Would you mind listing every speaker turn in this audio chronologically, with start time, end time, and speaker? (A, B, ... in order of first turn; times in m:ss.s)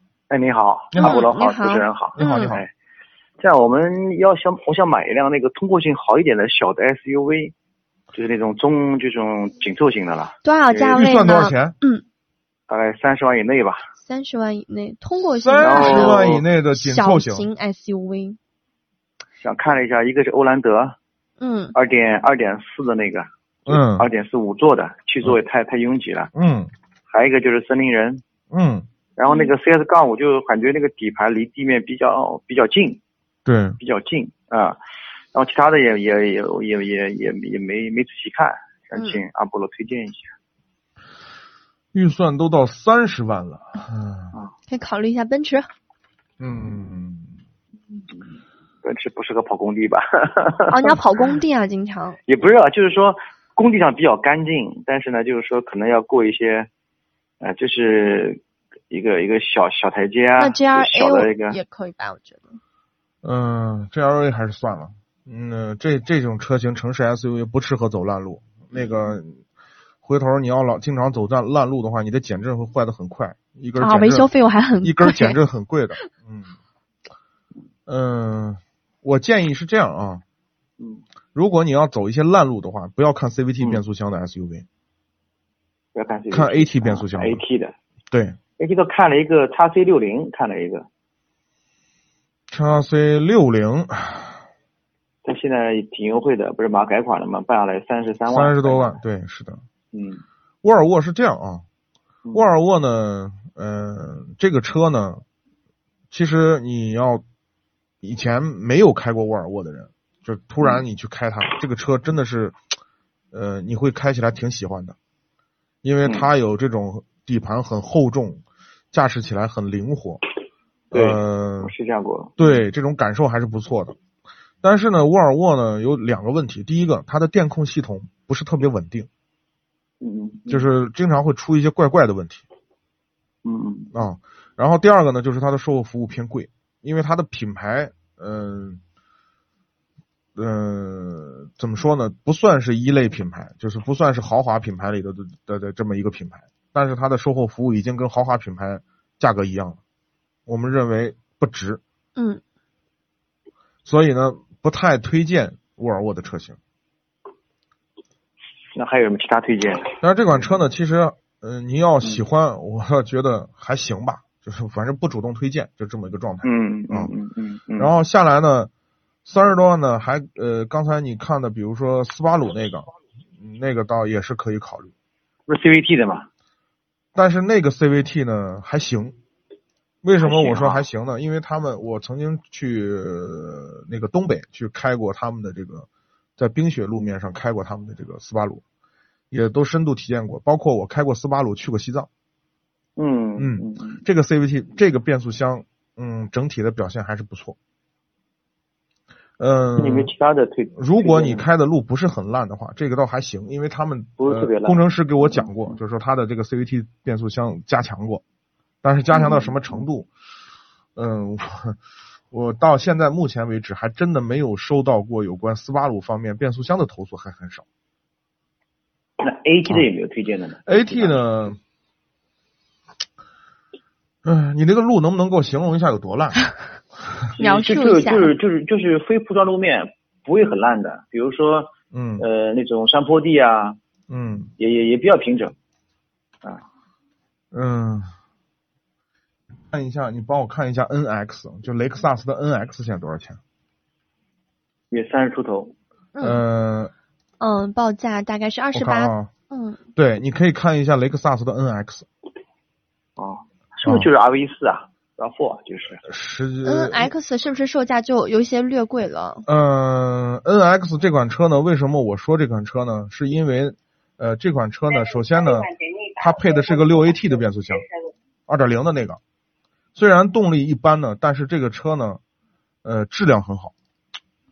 0:00.3-0:02.7 A
0:00.9-0:01.2 B
0:01.0-0:02.6 C
0:02.2-0:02.6 B
0:03.4-0:07.5 A
0:08.1-0:11.0 A
0:10.4-0:12.0 C
0:10.9-0:11.8 B
0:12.7-0:13.8 A
0:14.0-0:18.4 C
0:15.4-0:17.5 B
0:15.6-0:16.4 A
0:19.4-0:21.0 A
0:21.4-0:21.7 C
0:21.7-0:26.3 A
0:23.7-0:24.1 B
0:26.3-0:26.7 B
0:27.1-0:28.2 A
0:28.5-0:28.8 B
0:29.2-0:33.0 A
0:33.4-0:33.8 B
0:33.8-0:34.8 A
0:35.3-0:40.3 A
0:41.9-0:44.3 B
0:44.7-0:45.7 C
0:46.4-0:47.4 B
0:48.8-0:51.3 A
0:50.7-0:52.2 C
0:52.3-0:56.7 A
0:57.4-1:01.6 A
1:00.4-1:02.6 C
1:03.2-1:09.4 B
1:08.7-1:09.2 A
1:10.0-1:16.5 B
1:13.8-1:15.4 C
1:17.9-1:20.2 B
1:21.3-1:24.6 B
1:25.9-1:27.7 A
1:26.3-1:27.4 B
1:28.1-1:28.4 B
1:28.6-1:30.9 A
1:32.5-1:34.4 B
1:35.2-1:39.0 A
1:38.3-1:39.6 B
1:39.9-1:40.2 A
1:40.6-1:41.6 B
1:42.3-1:45.2 B
1:46.1-1:47.2 B
1:48.0-1:52.6 B
1:53.3-1:55.0 B
1:55.8-2:00.2 B
2:00.9-2:01.7 B
2:00.9-2:02.4 A
2:02.4-2:04.0 B
2:04.6-2:09.1 B
2:10.0-2:10.7 A
2:10.5-2:12.4 B
2:13.4-2:13.9 A
2:13.9-2:18.8 B
2:20.4-2:29.8 B
2:30.5-2:31.8 B
2:32.2-2:32.4 C
2:33.8-2:36.6 B
2:38.7-2:40.6 A
2:40.0-2:47.1 B
2:46.4-2:47.9 A
2:47.8-2:48.7 B
2:49.2-2:54.9 B
2:55.5-2:56.3 A
2:57.1-2:59.1 B
3:00.0-3:08.6 B
3:00.2-3:00.9 A
3:09.3-3:12.1 B
3:13.0-3:14.0 A
3:13.4-3:17.6 B
3:19.4-3:20.1 B
3:19.8-3:21.5 A
3:20.7-3:28.2 B
3:24.2-3:24.8 A
3:28.8-3:30.1 B
3:29.1-3:29.8 A
3:30.9-3:31.8 B
3:32.3-3:37.6 B
3:39.2-3:41.2 A
3:40.6-3:41.6 B
3:44.2-3:46.4 B
3:47.4-3:53.8 A
3:47.4-3:48.3 C
3:51.9-3:52.2 B
3:54.1-3:54.5 B
3:54.6-3:55.5 A
3:57.5-3:58.1 B
3:59.7-4:03.4 B
4:04.9-4:05.7 A
4:06.1-4:06.4 C
4:06.2-4:06.9 B
4:07.4-4:09.8 C
4:08.7-4:09.3 B
4:09.9-4:12.1 B
4:13.2-4:16.0 A
4:16.0-4:17.1 B
4:16.6-4:19.4 C
4:19.4-4:27.9 B
4:28.5-4:29.2 B
4:30.0-4:32.2 B
4:32.8-4:33.7 B